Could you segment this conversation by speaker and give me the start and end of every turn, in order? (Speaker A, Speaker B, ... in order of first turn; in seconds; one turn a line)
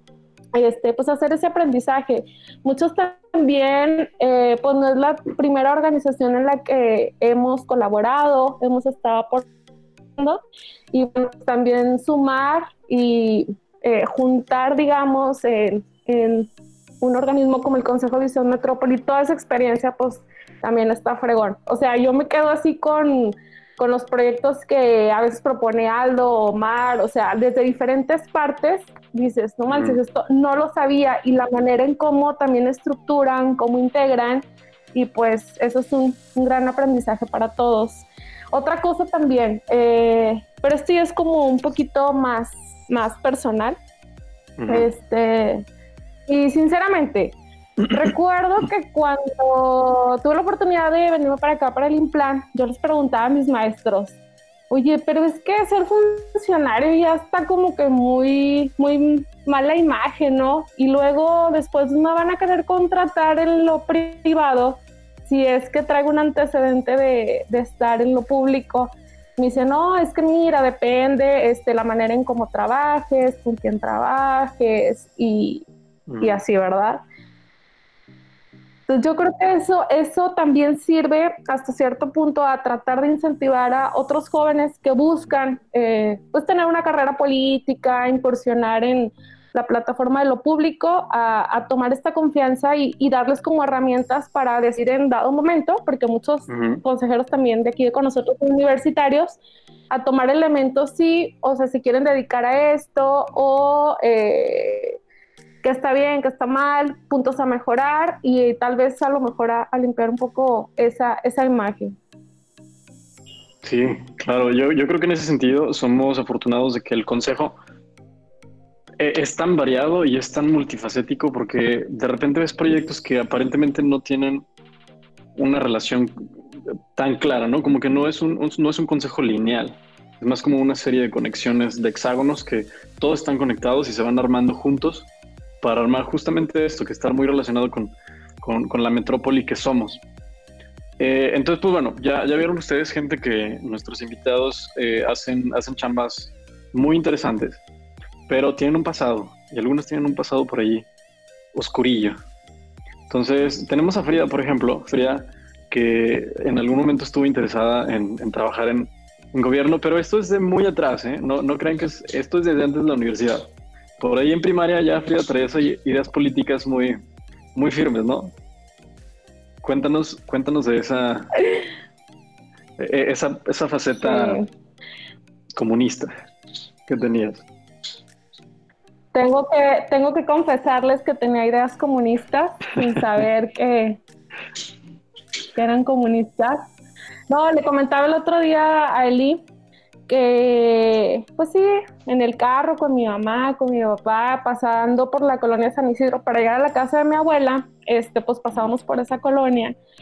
Speaker A: 0.5-9.5
Speaker A: 10.9-16.5
Speaker A: 17.0-43.8
Speaker B: 29.7-30.0
Speaker B: 44.6-44.9
Speaker A: 44.7-45.6
Speaker A: 46.3-47.4
Speaker A: 47.9-54.1
Speaker A: 54.7-75.7
Speaker B: 76.1-76.4
Speaker A: 76.2-77.0
Speaker A: 78.9-99.4
Speaker B: 96.5-96.8
Speaker A: 99.9-105.0
Speaker A: 105.6-111.9
Speaker B: 113.6-117.6
Speaker B: 119.0-124.5
Speaker B: 125.3-126.1
Speaker B: 126.9-135.1
Speaker B: 135.6-140.0
Speaker B: 141.0-147.6
Speaker B: 148.3-150.9
Speaker B: 151.5-152.2
Speaker B: 153.1-163.5
Speaker B: 164.0-167.0
Speaker B: 167.5-168.3
Speaker B: 169.6-171.3
Speaker B: 172.8-174.4
Speaker A: 174.0-174.5
Speaker B: 175.6-176.1
Speaker B: 176.9-177.4
Speaker A: 179.1-184.0
Speaker A: 185.5-186.6
Speaker A: 187.3-189.4
Speaker A: 190.1-199.8